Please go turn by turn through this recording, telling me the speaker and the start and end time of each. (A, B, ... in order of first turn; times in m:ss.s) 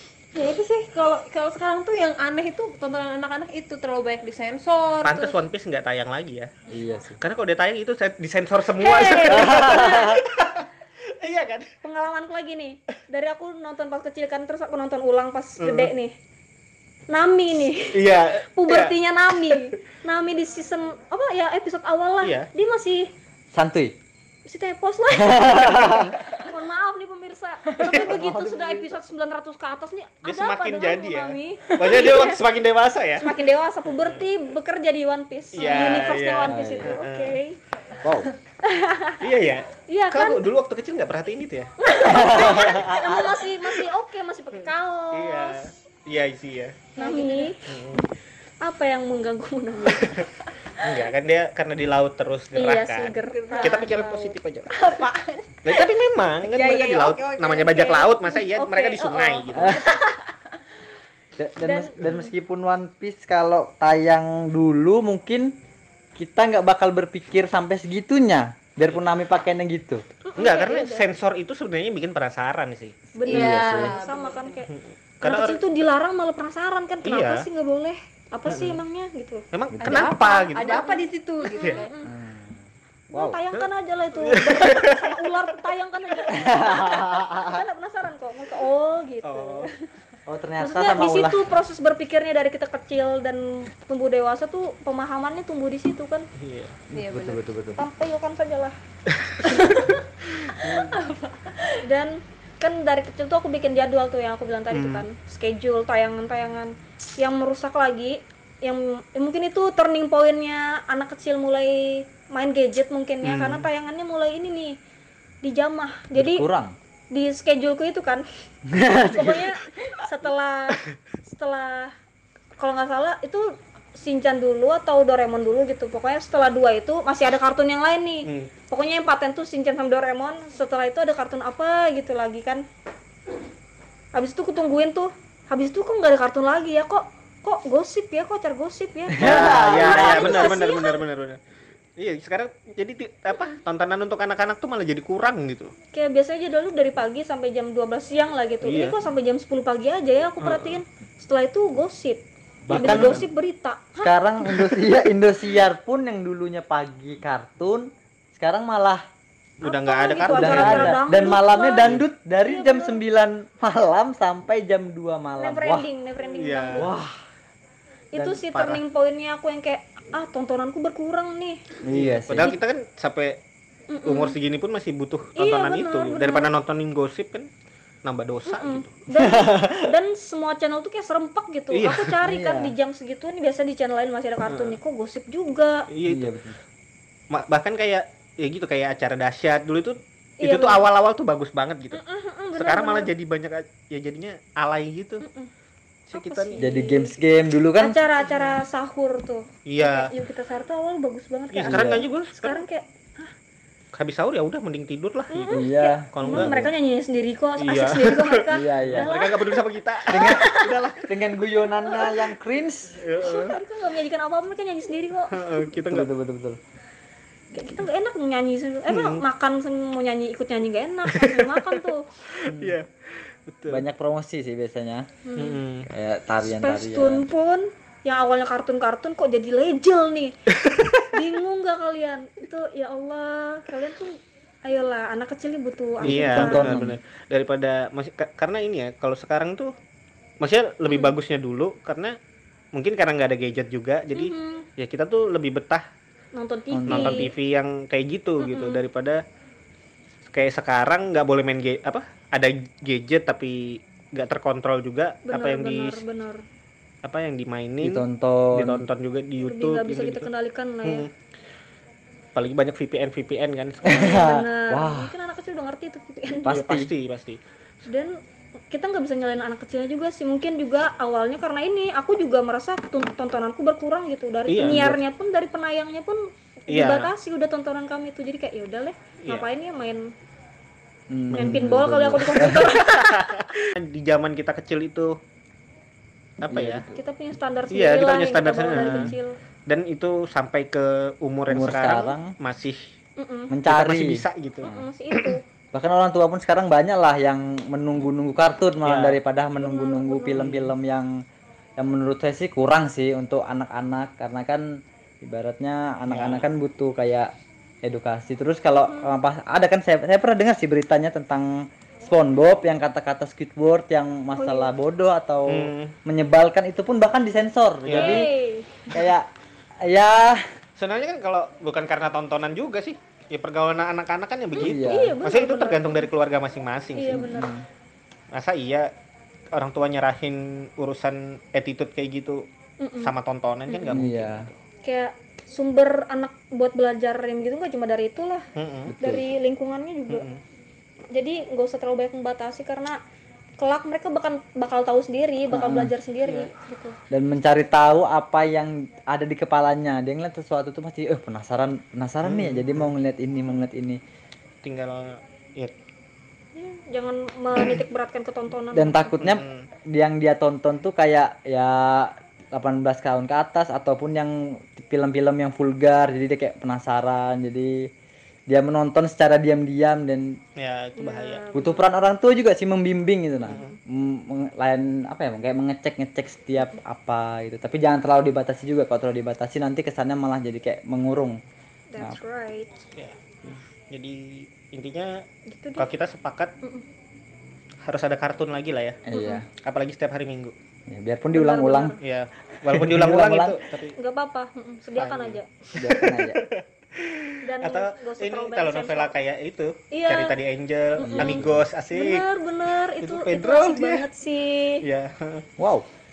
0:00.3-0:05.4 A
0:05.0-0:06.5 B
0:06.7-0:07.2 C
0:07.2-0:11.7 B
0:08.8-0:10.1 D
0:09.3-0:10.2 C
0:11.8-0:16.1 D
0:15.6-0:15.9 B
0:17.1-0:18.0 D
0:17.9-0:19.0 B
0:18.6-0:23.1 D
0:19.5-0:19.7 B
0:22.2-0:22.5 B
0:23.5-0:24.0 C
0:24.5-0:32.4 D
0:25.2-0:26.1 C
0:27.8-0:28.5 B
0:27.9-0:28.8 C
0:30.2-0:33.3 B
0:33.2-0:37.6 D
0:35.5-0:37.4 B
0:36.5-0:37.0 C
0:38.0-0:38.3 C
0:38.6-0:39.2 D
0:39.2-0:41.7 B
0:39.9-0:40.4 D
0:41.8-0:45.7 D
0:42.0-0:43.4 C
0:45.1-0:46.9 B
0:47.0-0:47.6 A
0:47.0-0:47.8 D
0:47.7-0:48.0 B
0:48.6-0:50.2 D
0:49.8-0:54.7 B
0:52.6-0:54.4 D
0:53.3-0:54.1 A
0:54.7-0:55.9 A
0:55.6-0:59.8 B
0:56.4-0:58.2 A
0:58.5-1:00.2 D
0:59.9-1:00.6 A
1:01.4-1:05.5 C
1:01.6-1:02.3 D
1:06.2-1:10.0 C
1:10.3-1:11.0 D
1:10.4-1:13.1 B
1:13.2-1:14.7 D
1:13.3-1:14.7 A
1:13.3-1:13.9 C
1:14.7-1:15.6 B
1:15.2-1:19.4 D
1:17.0-1:17.5 B
1:18.5-1:18.8 B
1:19.5-1:20.9 B
1:19.8-1:20.1 C
1:19.8-1:22.0 A
1:20.6-1:22.1 D
1:21.6-1:21.8 B
1:22.0-1:23.4 C
1:23.1-1:29.7 D
1:23.5-1:25.2 B
1:26.4-1:27.6 C
1:29.2-1:29.7 B
1:30.3-1:31.4 C
1:30.6-1:36.3 D
1:36.4-1:36.8 B
1:36.9-1:37.9 C
1:36.9-1:37.4 A
1:37.8-1:38.8 D
1:39.1-1:39.4 B
1:39.4-1:40.0 A
1:40.4-1:40.9 B
1:40.5-1:41.8 A
1:41.8-1:54.8 D
1:44.7-1:45.1 B
1:53.2-1:53.7 B
1:55.4-1:56.5 D
1:56.1-1:56.8 C
1:57.1-1:58.2 D
1:58.7-1:59.6 C
1:59.1-2:02.0 D
2:02.6-2:12.6 D
2:08.2-2:08.5 B
2:14.1-2:21.0 D
2:19.1-2:20.6 C
2:19.2-2:21.4 B
2:22.0-2:25.7 B
2:25.9-2:34.2 D
2:28.6-2:29.0 B
2:30.4-2:30.8 B
2:32.7-2:33.3 B
2:32.7-2:33.2 C
2:34.0-2:39.0 C
2:39.6-2:41.0 B
2:39.6-2:41.9 D
2:40.3-2:45.9 C
2:42.4-2:43.0 D
2:45.4-2:46.9 D
2:46.2-2:46.9 B
2:46.8-2:47.2 C
2:48.1-2:51.6 D
2:48.2-2:48.5 C
2:48.5-2:48.8 B
2:51.8-2:52.5 C
2:51.9-2:53.4 B
2:53.9-2:54.4 D
2:54.0-2:57.5 B
2:55.4-2:56.5 D
2:58.0-2:58.9 B
2:58.5-3:05.9 D
2:59.2-2:59.8 C
3:01.7-3:02.2 B
3:02.2-3:02.7 C
3:04.5-3:04.8 B
3:05.9-3:06.3 B
3:06.1-3:06.6 C
3:07.3-3:12.0 B
3:10.4-3:10.8 D
3:11.9-3:13.1 D
3:12.6-3:15.2 B
3:15.2-3:15.5 D
3:16.1-3:16.6 B
3:16.1-3:17.2 D
3:16.6-3:18.0 C
3:17.8-3:23.3 D
3:19.7-3:20.1 B
3:21.5-3:22.6 B
3:21.7-3:22.0 C
3:23.9-3:26.6 B
3:25.3-3:29.6 D
3:25.5-3:26.7 C
3:27.6-3:31.1 B
3:28.5-3:29.1 C
3:30.1-3:30.5 C
3:30.1-3:30.8 D
3:31.1-3:33.1 C
3:31.8-3:32.1 D
3:33.0-3:33.6 B
3:33.2-3:35.7 D
3:35.3-3:36.1 B
3:35.9-3:36.6 C
3:37.5-3:42.0 D
3:38.9-3:39.2 B
3:41.1-3:43.8 B
3:42.5-3:42.8 C
3:43.7-3:45.1 C
3:45.2-3:45.6 D
3:45.4-3:45.9 B
3:45.8-3:47.3 C
3:46.4-3:50.3 D
3:50.6-3:51.1 B
3:51.1-3:56.8 D
3:56.0-3:57.0 C
3:56.0-3:59.7 B
4:00.4-4:02.2 B
4:00.9-4:01.2 D
4:02.7-4:05.8 B
4:04.1-4:04.7 D
4:06.4-4:07.3 D
4:06.7-4:07.3 C
4:06.9-4:09.2 B
4:08.4-4:08.8 D
4:10.3-4:16.0 B
4:15.3-4:16.4 D
4:17.0-4:20.3 B
4:17.8-4:18.9 C
4:19.4-4:21.1 D
4:20.8-4:21.1 B
4:22.4-4:24.2 B
4:23.8-4:25.1 C
4:23.9-4:26.6 D
4:26.4-4:26.9 C
4:26.5-4:27.4 B
4:27.9-4:28.2 D
4:28.7-4:40.1 D
4:34.5-4:34.9 B
4:34.6-4:35.0 C
4:36.7-4:37.1 B
4:41.1-4:42.8 C
4:41.3-4:41.6 B
4:41.4-4:43.6 D
4:42.5-4:45.2 B
4:46.4-4:46.8 B
4:46.5-4:47.0 C
4:46.9-4:49.4 D
4:47.7-4:49.1 B
4:48.8-4:49.2 C
4:49.7-4:52.8 B
4:51.5-4:52.4 C
4:53.2-4:53.5 D
4:53.5-4:54.9 C
4:53.7-4:55.4 B
4:54.6-4:55.4 D
4:55.7-5:01.1 C
4:58.8-4:59.2 B
4:59.6-5:00.5 D
5:00.3-5:00.7 B
5:01.8-5:07.3 C
5:06.1-5:06.5 B
5:07.8-5:18.3 C
5:08.8-5:09.1 D
5:14.3-5:14.7 D
5:15.5-5:16.0 B
5:17.8-5:18.3 B
5:17.9-5:18.8 D
5:18.9-5:19.3 C
5:19.8-5:20.5 C
5:20.8-5:27.2 B
5:24.6-5:26.1 D
5:24.6-5:25.2 C
5:27.0-5:27.6 D
5:27.1-5:27.7 C
5:28.3-5:28.9 B
5:29.5-5:32.5 B
5:32.8-5:33.1 D
5:33.0-5:34.6 B
5:33.7-5:34.0 D
5:33.9-5:34.5 C
5:34.8-5:38.5 D
5:38.6-5:38.9 B
5:38.9-5:39.2 C
5:39.0-5:40.2 D
5:40.1-5:40.4 B
5:41.1-5:43.0 D
5:43.6-5:47.0 D
5:45.5-5:45.9 C
5:46.2-5:46.5 B
5:47.1-5:54.0 C
5:52.2-5:52.9 B
5:54.6-5:55.8 B
5:56.6-5:59.2 D
5:58.7-6:07.9 C
5:59.2-5:59.7 B
6:08.5-6:10.4 C
6:10.6-6:11.4 B
6:11.0-6:11.8 D
6:11.5-6:21.4 C
6:13.4-6:13.7 B
6:13.4-6:13.8 D
6:21.9-6:22.8 D
6:23.0-6:25.2 B
6:25.5-6:25.9 D
6:25.8-6:26.5 B
6:27.9-6:29.0 B
6:29.1-6:29.5 C
6:29.1-6:29.4 D
6:29.6-6:30.5 B
6:30.9-6:32.0 C
6:31.3-6:32.0 D
6:32.0-6:34.0 B
6:32.6-6:33.6 C
6:34.0-6:35.5 D
6:35.0-6:42.2 B
6:35.8-6:36.4 C
6:37.4-6:39.2 D
6:39.9-6:40.4 D
6:41.0-6:44.8 D
6:41.0-6:41.5 C
6:43.0-6:44.1 B
6:44.8-6:45.5 B
6:45.6-6:45.9 C